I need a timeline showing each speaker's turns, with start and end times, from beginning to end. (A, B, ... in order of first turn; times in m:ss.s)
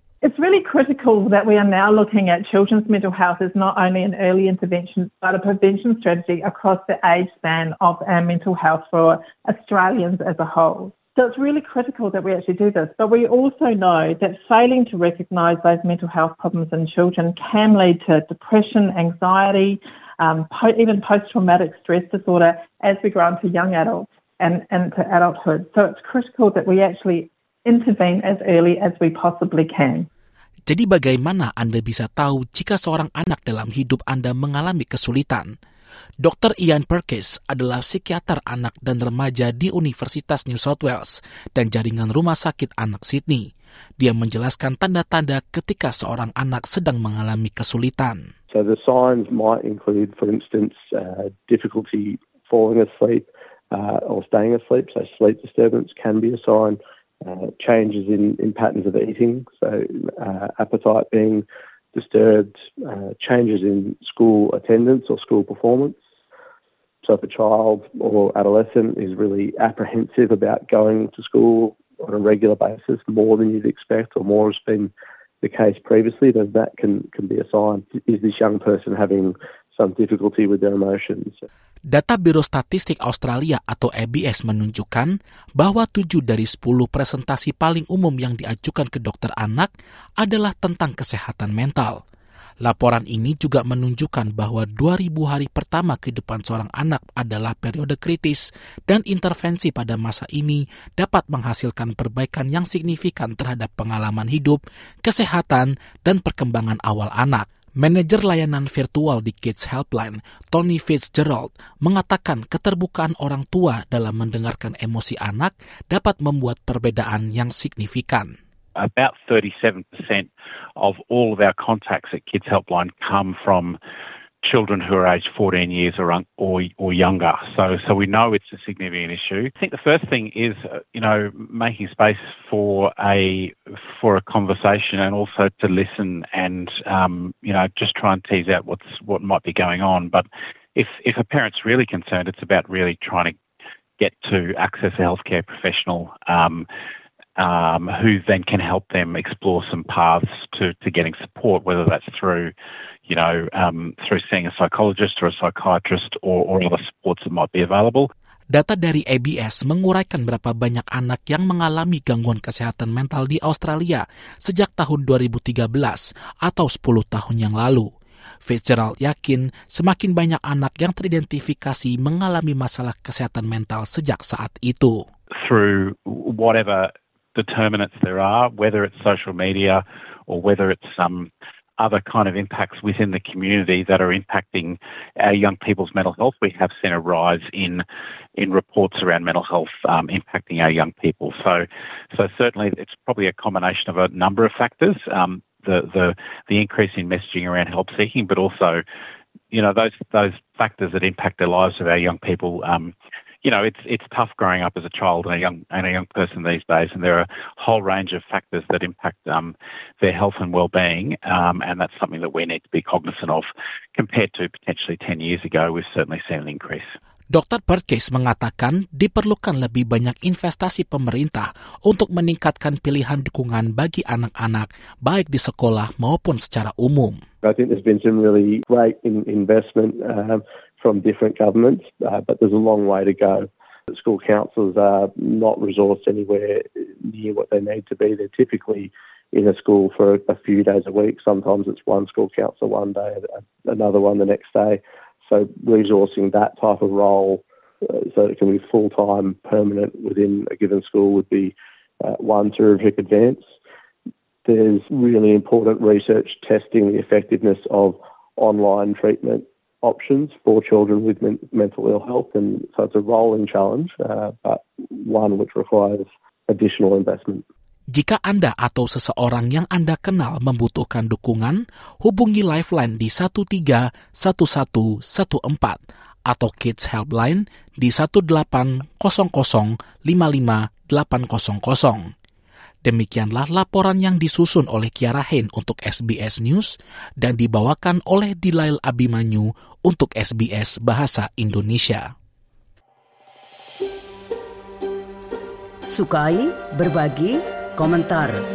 0:00.2-0:30.1 A
0:30.7-0:35.5 B
0:36.2-0:48.2 B
0:48.5-1:06.0 C
1:07.0-1:21.4 C
1:21.9-1:32.0 B
1:32.6-1:58.4 B
1:58.8-2:03.8 D
2:04.4-2:23.4 D
2:24.0-2:26.7 D
2:27.4-2:32.5 D
2:33.1-2:38.1 D
2:38.5-2:47.9 B
2:48.4-2:55.0 B
2:55.4-3:07.8 D
3:08.4-3:18.8 D
3:19.5-3:36.9 D
3:37.3-3:47.2 B
3:47.4-4:13.4 C
4:14.4-4:27.4 C
4:27.9-4:42.1 B
4:42.8-4:52.1 B
4:55.8-4:58.4 E